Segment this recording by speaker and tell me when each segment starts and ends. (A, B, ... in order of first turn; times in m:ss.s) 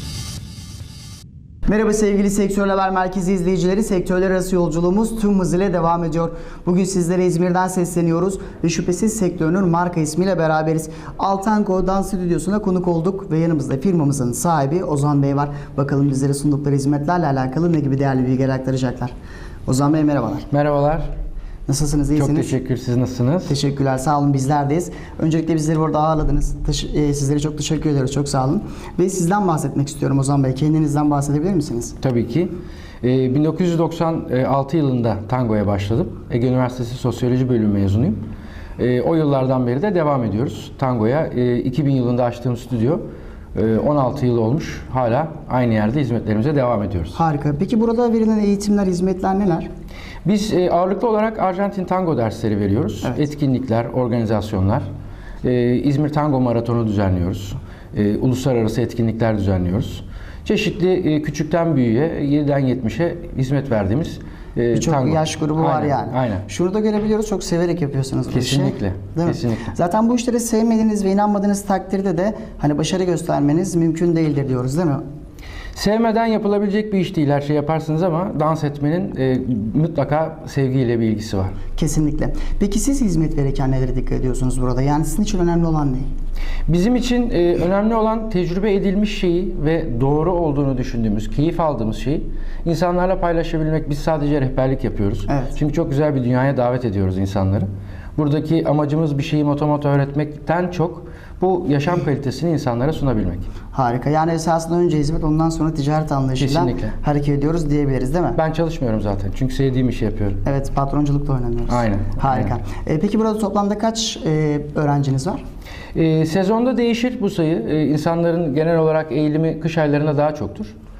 0:01.7-0:19.1 A
0:19.6-0:20.5 A
0:20.5-0:21.1 B
0:21.7-0:22.5 A
0:22.2-0:23.5 B
0:23.4-0:32.0 A
0:32.0-0:38.2 B
0:38.8-0:43.0 B
0:43.5-0:47.2 B
0:47.1-0:49.7 A
0:50.2-0:54.8 B
0:55.4-1:06.4 B
1:04.7-1:15.0 A
1:08.3-1:09.7 B
1:15.7-1:21.6 B
1:21.8-1:26.1 A
1:26.7-1:43.5 B
1:35.3-1:35.6 A
1:43.7-1:48.4 A
1:46.4-1:46.9 B
1:48.4-1:50.4 B
1:50.4-1:55.4 A
1:51.7-1:52.5 B
1:55.9-2:00.7 B